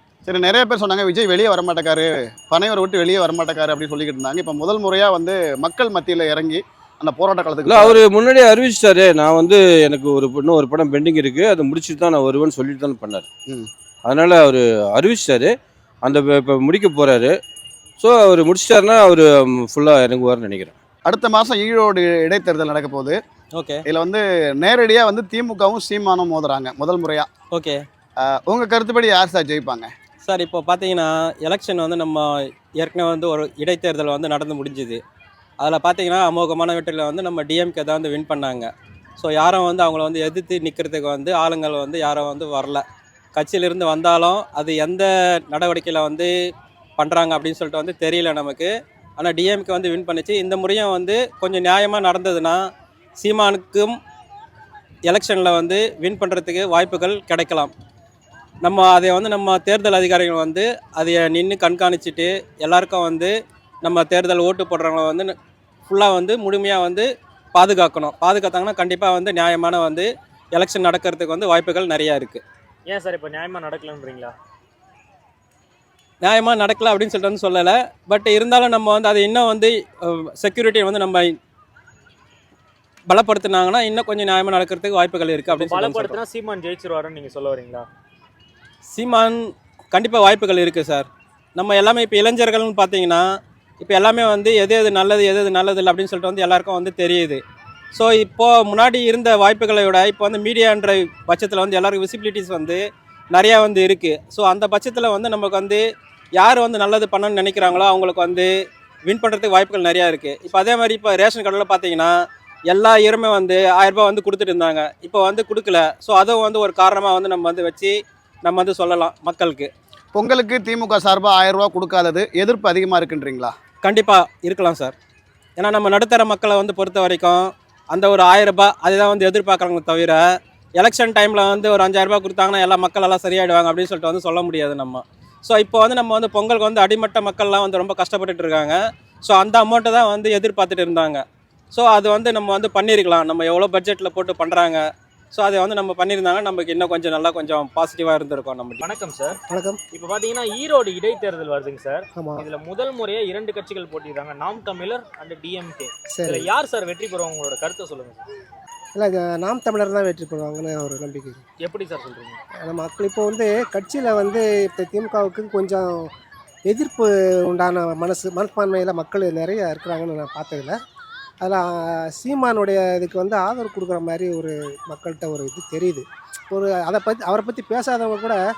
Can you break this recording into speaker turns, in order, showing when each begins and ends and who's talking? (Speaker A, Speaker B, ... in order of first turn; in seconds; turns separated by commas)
Speaker A: 0.2-8.0, Speaker B: 7.7-13.2, Speaker B: 14.1-15.5, Speaker B: 16.0-17.3, Speaker B: 18.0-20.8, Speaker A: 21.1-23.2, Speaker A: 23.9-27.3, Speaker C: 27.5-27.8, Speaker A: 28.2-29.9, Speaker C: 30.2-32.3, Speaker C: 32.8-35.0, Speaker C: 35.6-42.8, Speaker C: 43.4-46.3, Speaker C: 47.0-52.6, Speaker C: 53.2-54.0, Speaker C: 55.1-57.7, Speaker C: 58.6-63.3, Speaker C: 63.8-65.3, Speaker C: 65.9-72.4, Speaker D: 72.9-74.3, Speaker C: 76.2-81.3, Speaker C: 83.1-86.2, Speaker D: 85.5-87.9, Speaker C: 88.9-89.4, Speaker C: 89.9-93.2, Speaker C: 93.8-97.4, Speaker C: 98.0-105.8, Speaker C: 106.4-108.5, Speaker C: 109.1-112.1, Speaker C: 112.7-119.7, Speaker A: 120.1-123.5, Speaker C: 123.8-124.9, Speaker C: 125.6-130.2, Speaker C: 130.8-144.8, Speaker C: 145.3-148.8, Speaker D: 148.8-149.4, Speaker E: 149.4-149.8, Speaker D: 149.9-158.2, Speaker E: 152.2-152.4, Speaker E: 156.1-156.5, Speaker E: 158.9-161.4, Speaker D: 161.6-162.4, Speaker E: 162.7-166.1, Speaker E: 166.7-170.8, Speaker E: 171.4-178.4